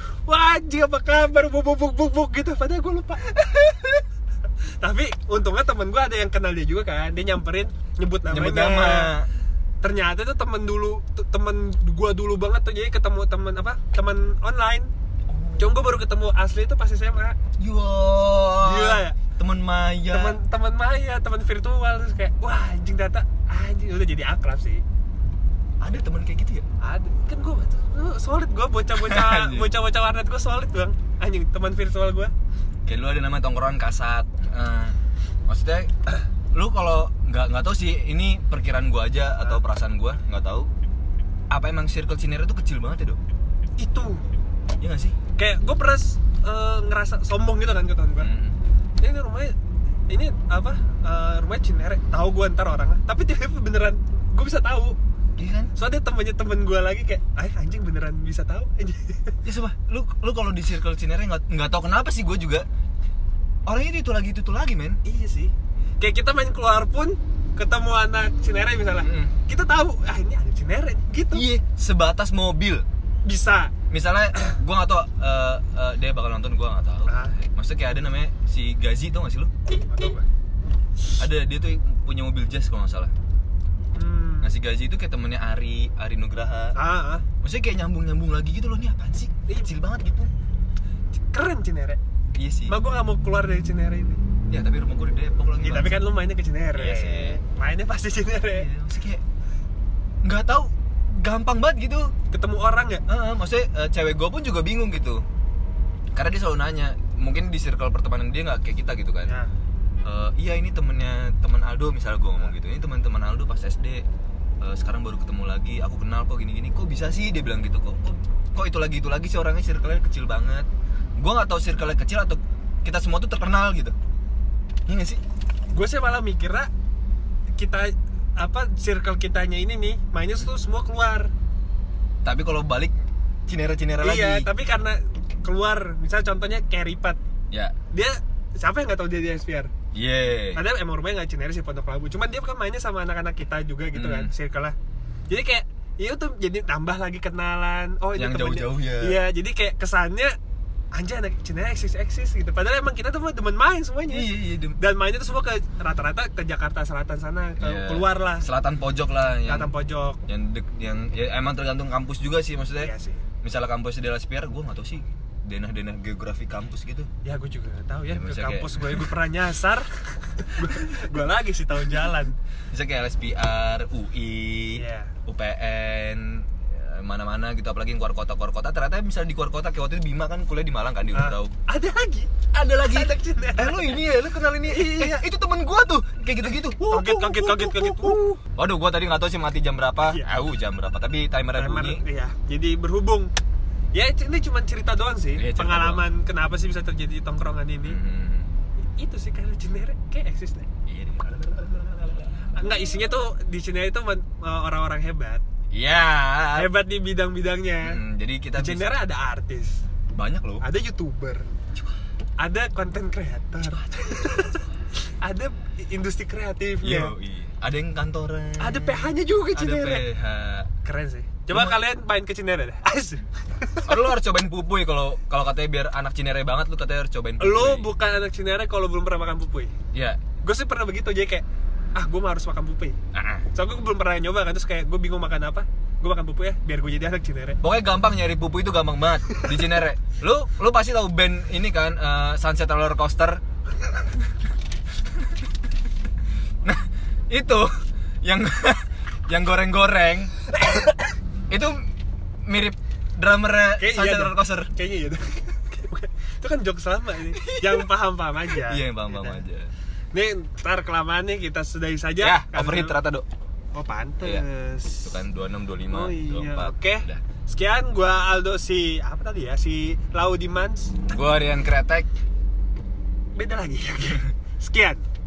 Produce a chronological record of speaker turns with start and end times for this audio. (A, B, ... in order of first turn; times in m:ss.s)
0:00.3-0:04.0 A
0:04.8-0:09.1 A
0:08.3-0:09.3 B
0:09.8-0:14.9 A
0:15.3-0:15.9 B
0:15.6-0:17.4 A
0:17.6-0:20.4 B
0:18.6-0:19.2 A
0:20.1-0:24.8 A
0:25.8-0:26.6 B
0:26.8-0:32.3 A
0:28.9-0:29.7 B
0:32.8-0:35.0 B
0:35.5-0:35.9 B
0:36.5-0:40.7 B
0:41.5-0:43.2 B
0:43.8-0:44.2 A
0:44.8-0:45.2 B
0:45.4-0:48.3 A
0:48.2-0:48.6 B
0:49.0-0:49.5 A
0:50.1-0:55.0 A
0:55.4-0:55.7 B
0:55.7-0:59.4 A
0:59.4-1:02.6 B
1:03.6-1:05.0 B
1:05.0-1:11.4 A
1:09.0-1:09.3 B
1:11.3-1:12.8 B
1:13.2-1:13.7 A
1:13.9-1:19.5 B
1:17.1-1:17.3 A
1:19.8-1:20.2 A
1:21.2-1:23.1 B
1:23.9-1:24.5 A
1:24.4-1:26.8 B
1:26.7-1:27.2 A
1:27.4-1:30.3 B
1:31.3-1:32.0 A
1:32.3-1:32.7 B
1:32.7-1:34.2 A
1:34.5-1:36.0 B
1:35.6-1:38.7 A
1:36.7-1:37.4 B
1:38.5-1:39.2 B
1:40.2-1:42.1 B
1:42.3-1:43.0 A
1:43.1-1:45.2 B
1:46.1-1:49.3 B
1:50.0-1:54.0 B
1:54.6-2:00.7 B
2:01.2-2:03.9 B
2:04.9-2:05.2 B
2:05.7-2:06.7 A
2:07.5-2:11.3 A
2:12.2-2:12.9 B
2:13.5-2:14.5 B
2:14.0-2:17.2 A
2:17.5-2:17.8 B
2:17.9-2:19.7 A
2:19.9-2:20.6 B
2:20.5-2:24.8 A
2:23.9-2:24.3 B
2:25.3-2:30.3 A
2:28.2-2:29.2 B
2:30.9-2:38.5 A
2:34.1-2:34.8 B
2:37.6-2:39.7 B
2:39.4-2:40.2 A
2:40.3-2:42.9 B
2:42.8-2:43.2 A
2:43.4-2:47.1 B
2:47.2-2:52.4 A
2:48.1-2:49.0 B
2:52.7-3:01.5 B
2:54.7-2:55.1 A
3:01.1-3:02.3 A
3:02.5-3:12.0 B
3:02.9-3:04.0 A
3:04.7-3:05.2 A
3:06.8-3:08.4 A
3:11.5-3:13.3 A
3:13.9-3:18.0 A
3:15.4-3:16.0 B
3:17.8-3:18.5 B
3:18.9-3:20.7 A
3:20.9-3:22.9 B
3:22.6-3:25.4 A
3:25.7-3:26.7 B
3:26.5-3:28.0 A
3:27.8-3:28.9 B
3:28.6-3:29.8 A
3:30.1-3:30.6 B
3:30.6-3:31.5 A
3:32.4-3:34.6 A
3:35.2-3:37.1 A
3:36.8-3:40.7 B
3:38.6-3:40.0 A
3:40.8-3:44.0 A
3:41.5-3:41.8 B
3:43.8-3:47.9 B
3:47.4-3:49.7 A
3:49.9-3:50.2 B
3:50.4-3:53.0 A
3:53.1-3:53.4 B
3:53.5-3:57.6 A
3:57.6-4:03.4 B
4:06.6-4:10.3 B
4:10.6-4:11.0 A
4:11.5-4:11.8 B
4:12.4-4:14.7 B
4:13.8-4:19.4 A
4:17.4-4:17.9 B
4:18.5-4:19.7 B
4:20.1-4:23.0 A
4:22.2-4:23.3 B
4:23.7-4:25.2 A
4:25.0-4:27.2 B
4:25.9-4:31.0 A
4:31.1-4:32.1 B
4:33.4-4:35.0 A